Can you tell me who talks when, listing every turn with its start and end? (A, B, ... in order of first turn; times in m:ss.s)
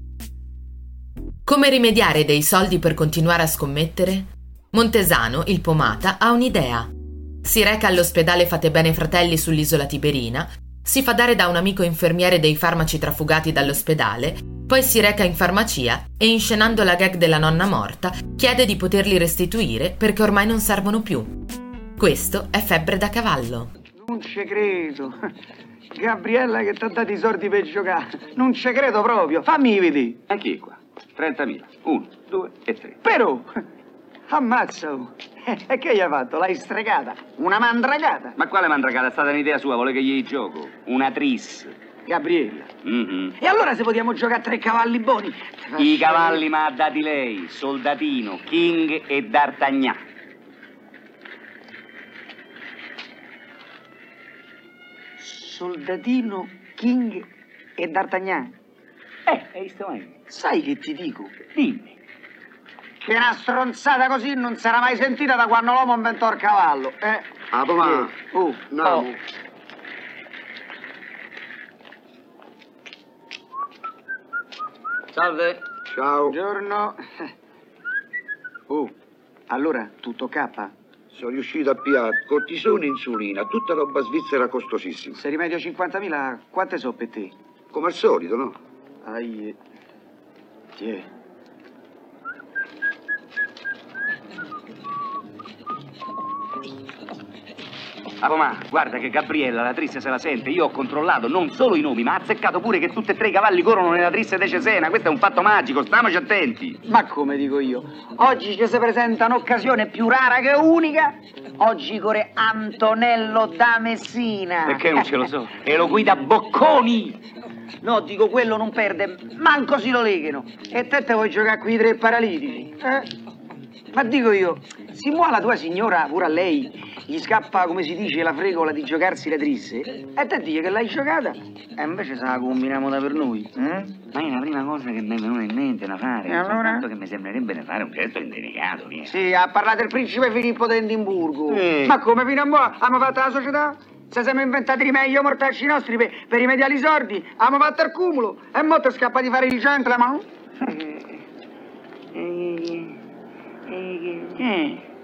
0:01.4-0:06.9 A
0:07.4-0:21.3 A
0:22.0-0:23.7 A
0:24.0-0:25.2 B
0:25.9-0:30.2 B
0:30.3-0:33.0 C
0:33.0-0:33.5 B
0:34.3-0:38.4 B
0:38.4-0:41.7 C
0:42.0-0:42.7 B
0:42.8-0:43.4 C
0:43.4-0:46.4 B
0:45.8-0:50.0 C
0:55.2-0:57.2 B
0:57.8-0:58.5 B
0:59.2-1:00.1 C
1:00.3-1:01.3 B
1:01.5-1:01.9 C
1:03.0-1:09.0 B
1:07.5-1:08.1 D
1:08.7-1:09.2 D
1:15.2-1:15.5 C
1:15.7-1:16.4 D
1:16.2-1:17.3 B
1:18.7-1:18.9 B
1:19.5-1:20.7 B
1:21.1-1:25.2 D
1:25.1-1:27.3 B
1:27.7-1:28.6 D
1:29.0-1:29.6 B
1:30.8-1:31.1 B
1:38.2-1:46.8 C
1:46.9-1:55.0 B
1:54.6-1:57.2 C
1:57.8-2:03.1 B
2:03.9-2:13.9 B
2:14.1-2:19.2 C
2:16.3-2:16.8 B
2:19.0-2:30.2 B
2:21.5-2:21.9 C
2:30.6-2:31.0 C
2:32.1-2:33.0 C
2:33.7-2:34.4 C
2:34.4-2:34.8 B